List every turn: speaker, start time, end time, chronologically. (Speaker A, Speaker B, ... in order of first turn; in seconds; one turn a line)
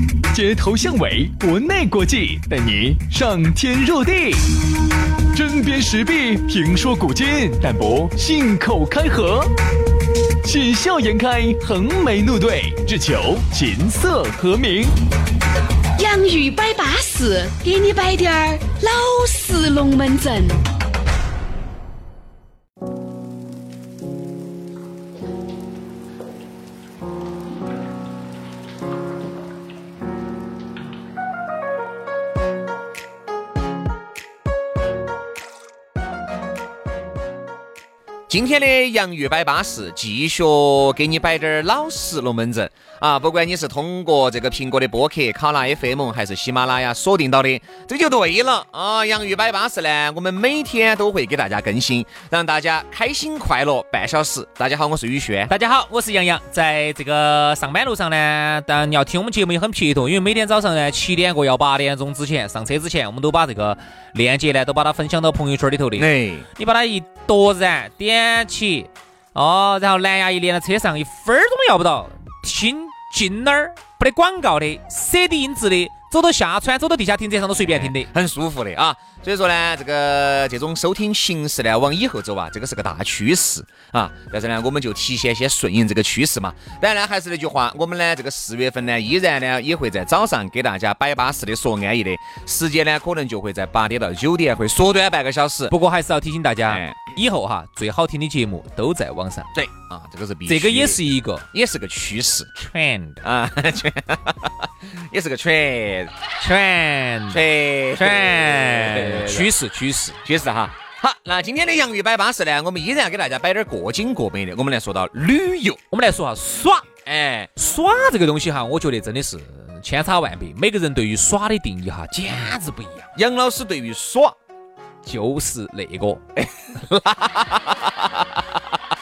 Speaker A: 0.3-4.5
Speaker A: 5.3-9.5
Speaker A: 10.4-14.9
Speaker B: 16.0-20.6
Speaker C: 38.3-55.5
Speaker D: 55.5-78.1
Speaker C: 66.0-66.5
Speaker C: 77.6-95.8
Speaker D: 95.7-99.5
Speaker C: 96.7-97.1
Speaker C: 99.5-102.5
Speaker D: 100.5-101.5
Speaker D: 102.6-103.2
Speaker C: 103.2-106.1
Speaker D: 106.4-110.2
Speaker C: 107.3-109.5
Speaker C: 110.2-115.8
Speaker D: 115.9-116.9
Speaker C: 117.0-117.5
Speaker D: 117.5-123.1
Speaker C: 123.1-124.3
Speaker D: 125.0-126.2
Speaker C: 126.3-128.6